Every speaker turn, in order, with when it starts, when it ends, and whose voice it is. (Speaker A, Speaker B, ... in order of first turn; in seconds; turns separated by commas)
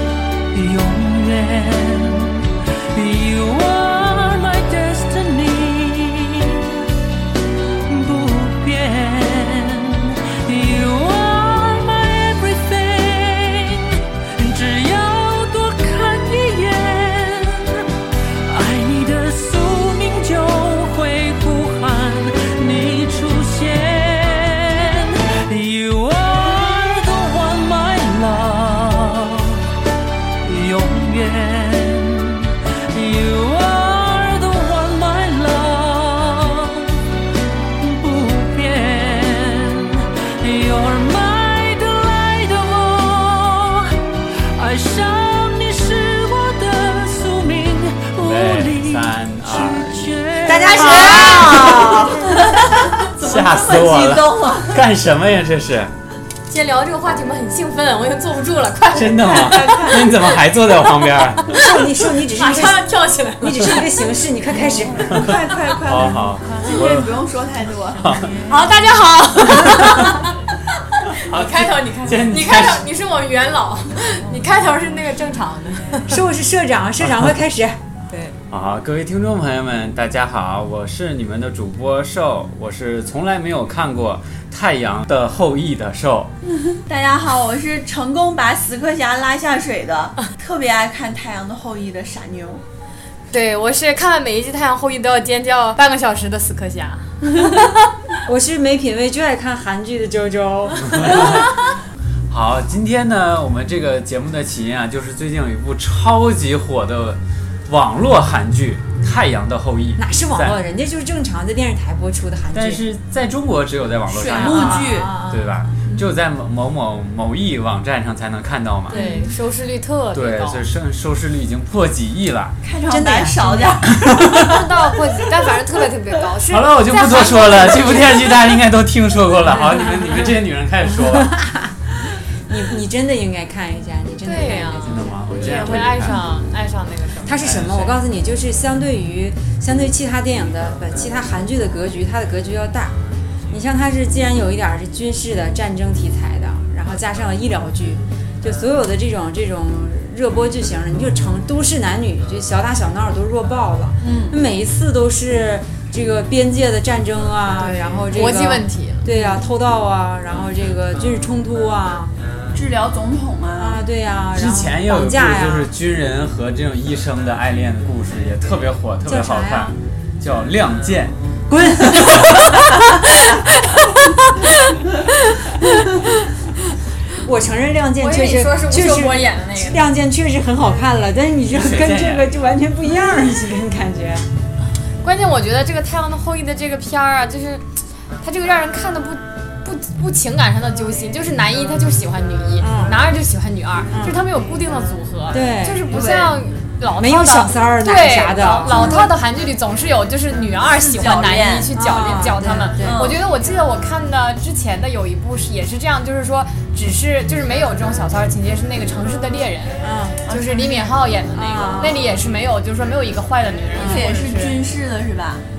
Speaker A: 0.5-6.9, Speaker A: 7.9-17.9, Speaker A: 18.5-29.6, Speaker A: 30.4-37.0, Speaker A: 37.8-51.7, Speaker B: 48.2-50.2, Speaker C: 50.4-52.9, Speaker B: 50.9-51.4, Speaker D: 51.2-51.6, Speaker E: 52.3-54.8, Speaker B: 52.9-55.9, Speaker D: 56.5-60.1, Speaker B: 58.9-61.6, Speaker E: 59.3-60.1, Speaker D: 61.4-63.9, Speaker C: 61.5-62.9, Speaker C: 63.4-65.4, Speaker E: 64.5-68.4, Speaker B: 65.1-67.1, Speaker B: 68.0-68.4, Speaker D: 68.5-70.4, Speaker B: 69.7-70.2, Speaker D: 70.9-76.2, Speaker B: 71.1-72.8, Speaker C: 76.0-77.8, Speaker D: 78.1-78.3, Speaker B: 78.5-86.3, Speaker E: 86.5-92.6, Speaker D: 93.3-97.6, Speaker C: 97.2-97.7, Speaker C: 98.2-101.4, Speaker B: 100.9-101.5, Speaker B: 102.3-110.6, Speaker C: 110.0-112.8, Speaker B: 112.5-119.0, Speaker E: 114.1-115.1, Speaker D: 114.2-114.7, Speaker C: 114.4-115.5, Speaker D: 118.9-120.6, Speaker E: 118.9-119.3, Speaker B: 120.1-122.6, Speaker E: 122.6-124.6, Speaker C: 122.8-123.8, Speaker B: 124.0-124.6, Speaker D: 124.5-128.3, Speaker B: 126.5-131.4, Speaker C: 129.5-130.3, Speaker C: 130.9-131.8, Speaker C: 132.5-135.1, Speaker D: 134.2-137.5, Speaker B: 134.8-136.2, Speaker C: 137.2-142.9, Speaker B: 137.4-138.0, Speaker C: 143.5-162.1, Speaker E: 154.0-154.4, Speaker D: 157.6-159.1, Speaker E: 162.5-163.8, Speaker C: 163.6-165.7, Speaker B: 164.3-171.1, Speaker C: 169.1-169.7, Speaker C: 171.5-174.7, Speaker B: 171.8-172.5, Speaker C: 175.4-176.1, Speaker C: 177.1-184.3, Speaker D: 178.0-179.8, Speaker B: 181.5-182.3, Speaker D: 185.0-187.6, Speaker D: 188.2-214.6, Speaker C: 192.6-193.0, Speaker C: 193.9-194.2, Speaker C: 195.3-195.9, Speaker E: 195.9-196.4, Speaker C: 196.9-199.1, Speaker E: 198.6-199.1, Speaker E: 200.8-201.7, Speaker C: 201.7-203.2, Speaker E: 202.8-203.2, Speaker C: 209.8-210.2, Speaker E: 210.2-211.0, Speaker C: 211.3-212.1, Speaker E: 213.8-215.4, Speaker C: 213.8-214.1